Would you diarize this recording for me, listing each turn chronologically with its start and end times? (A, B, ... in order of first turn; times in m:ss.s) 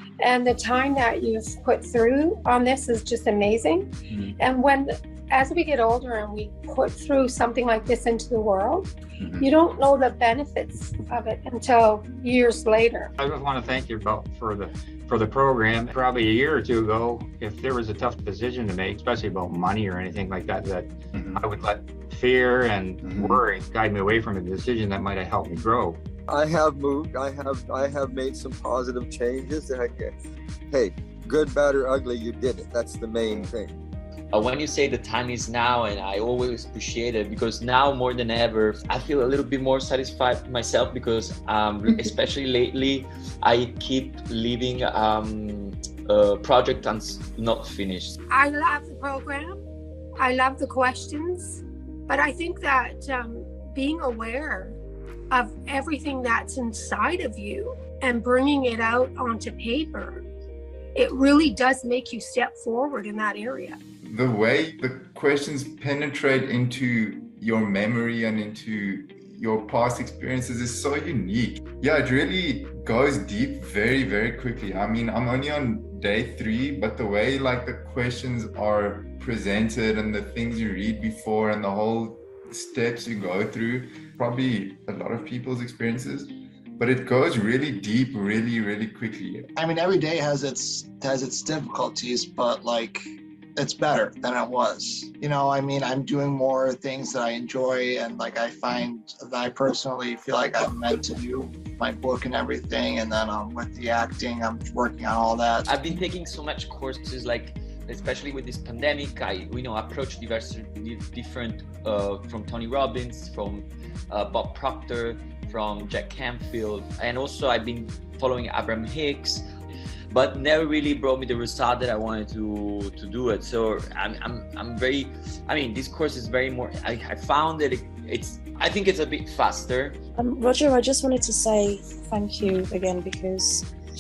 0:00.2-0:08.9 A
0:04.1-0:04.4 B
0:09.2-0:09.4 B
0:09.4-0:13.1 A
0:13.2-0:26.0 C
0:21.1-0:21.4 B
0:23.0-0:23.4 B
0:26.3-0:30.1 D
0:30.7-0:33.8 D
0:34.3-0:48.2 E
0:48.3-0:49.6 A
0:50.2-0:54.8 A
0:55.3-1:00.2 A
1:01.0-1:03.8 A
1:04.0-1:29.5 B
1:29.6-1:33.0 F
1:33.6-1:45.7 F
1:45.7-1:59.4 E
2:00.1-2:10.0 E
2:10.2-2:13.7 G